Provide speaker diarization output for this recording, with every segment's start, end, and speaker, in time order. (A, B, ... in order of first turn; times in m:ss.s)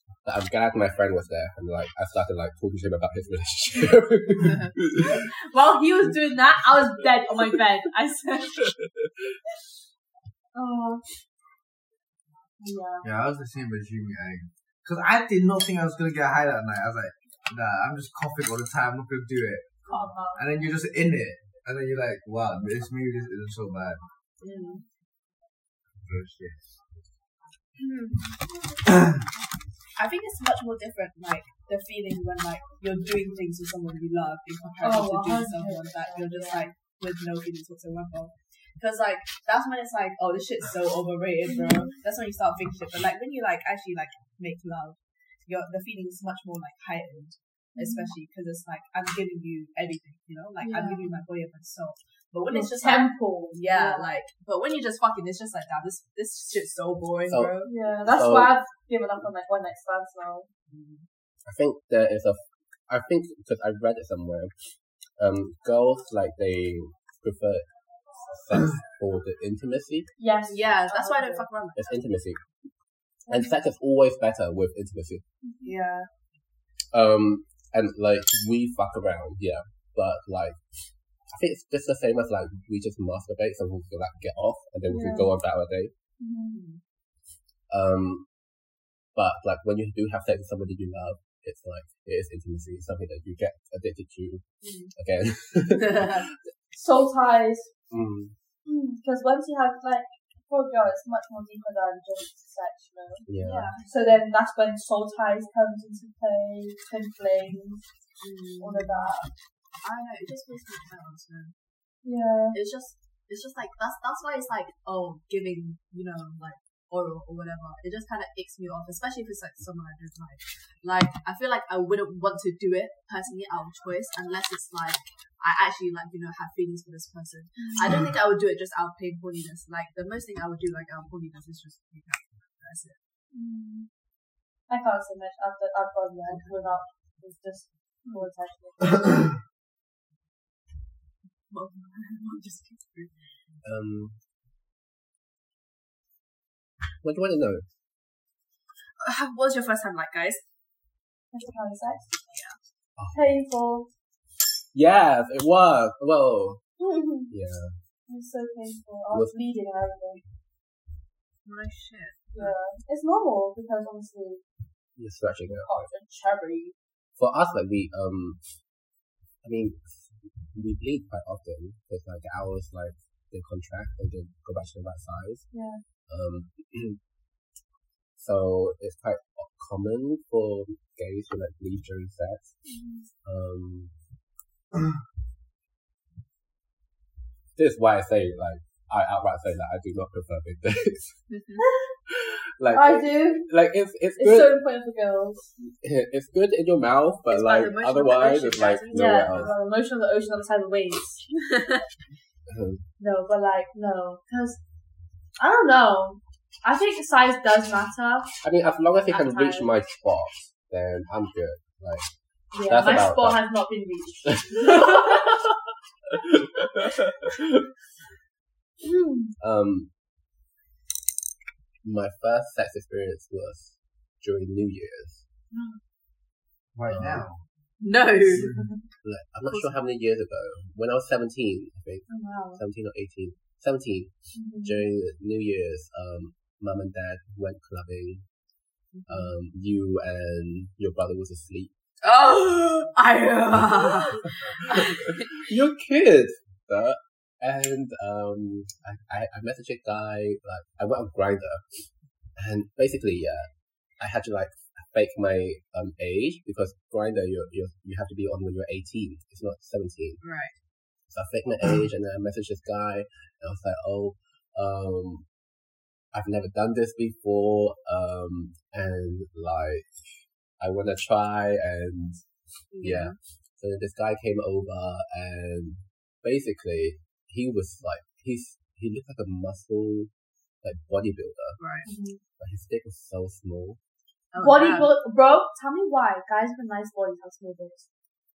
0:00.2-0:05.2 A
0:04.4-0:04.7 B
0:05.0-0:08.7 C
0:10.5-0:11.0 C
0:12.6-0:13.1 C
0:13.0-0:19.6 D
0:19.8-0:20.4 C
0:20.4-0:24.0 D
0:24.4-0:24.8 B
0:24.4-0:24.8 C
0:26.0-0:26.7 D
0:30.0-0:57.7 B
0:34.8-0:36.7 C
0:41.4-0:41.9 C
0:47.8-0:48.1 C
0:50.6-0:51.2 C
0:52.5-0:54.1 C
0:57.3-0:57.5 A
0:57.6-1:00.5 C
0:58.1-0:58.5 A
1:00.7-1:01.1 B
1:01.4-1:04.5 A
1:05.2-1:07.6 A
1:08.2-1:10.1 A
1:10.2-1:11.5 C
1:10.5-1:11.9 B
1:11.8-1:12.4 A
1:13.3-1:15.2 A
1:15.4-1:15.7 C
1:15.6-1:16.1 B
1:16.9-1:20.6 A
1:21.3-1:25.9 A
1:24.9-1:25.3 C
1:26.2-1:26.6 C
1:26.5-1:26.8 B
1:27.7-1:28.3 A
1:29.1-1:34.4 A
1:34.6-1:34.9 B
1:34.9-1:36.4 A
1:35.8-1:36.2 B
1:36.7-1:37.7 C
1:37.9-1:38.3 A
1:38.6-1:47.8 C
1:43.3-1:43.7 A
1:43.4-1:43.8 B
1:48.2-1:49.0 B
1:48.6-1:49.3 C
1:49.8-1:51.5 B
1:52.0-1:52.6 C
1:52.5-2:13.0 B
2:07.6-2:08.0 C
2:13.3-2:13.9 C
2:14.7-2:19.3 C
2:21.5-2:23.1 B
2:23.6-2:24.2 A
2:27.0-2:27.6 A
2:29.0-2:30.4 B
2:31.3-2:32.1 C
2:32.3-2:32.6 B
2:33.0-2:33.2 A
2:33.1-2:33.9 C
2:34.7-2:36.6 A
2:36.8-2:37.3 C
2:37.3-2:37.8 A
2:38.1-2:40.2 C
2:39.1-2:39.4 A
2:41.4-2:42.5 B
2:42.3-2:44.4 C
2:45.0-2:45.9 A
2:45.6-2:46.7 C
2:47.2-2:48.4 A
2:49.4-2:55.4 A
2:55.5-2:55.8 C
2:56.1-2:57.0 A
2:58.2-3:02.5 A
3:02.7-3:03.0 C
3:03.2-3:03.9 A
3:07.6-3:11.2 A
3:11.3-3:11.6 B
3:11.6-3:11.9 C
3:12.1-3:14.6 A
3:12.7-3:13.5 C
3:14.2-3:15.4 C
3:15.6-3:19.5 A
3:17.3-3:19.6 B
3:18.9-3:21.3 C
3:22.5-3:22.8 A
3:23.0-3:24.6 C
3:25.4-3:28.3 C
3:28.4-3:32.1 A
3:29.1-3:29.7 C
3:32.5-3:35.3 C
3:32.6-3:33.4 A
3:34.3-3:35.3 A
3:36.1-3:37.6 A
3:38.8-3:39.3 C
3:39.4-3:39.9 A
3:41.8-3:45.2 A
3:45.5-3:45.8 C
3:46.7-3:47.4 D
3:46.9-3:47.2 A
3:47.8-3:48.5 B
3:48.3-3:48.7 D
3:48.4-3:48.8 C
3:49.0-3:54.1 A
3:49.5-3:49.8 B
3:52.1-3:52.6 C
3:54.3-3:54.8 C
3:54.6-3:58.2 A
3:58.9-3:59.3 B
3:59.1-4:01.7 A
4:02.0-4:05.4 B
4:04.7-4:11.6 A
4:12.4-4:20.2 A
4:20.2-4:20.5 B
4:21.1-4:25.2 A
4:26.1-4:29.9 A
4:30.6-4:32.2 A
4:32.7-4:33.1 B
4:32.8-4:40.1 A
4:40.6-4:41.6 A
4:41.6-4:41.9 B
4:41.8-4:42.2 C
4:42.4-4:43.8 A
4:44.3-4:44.9 B
4:44.4-4:47.8 C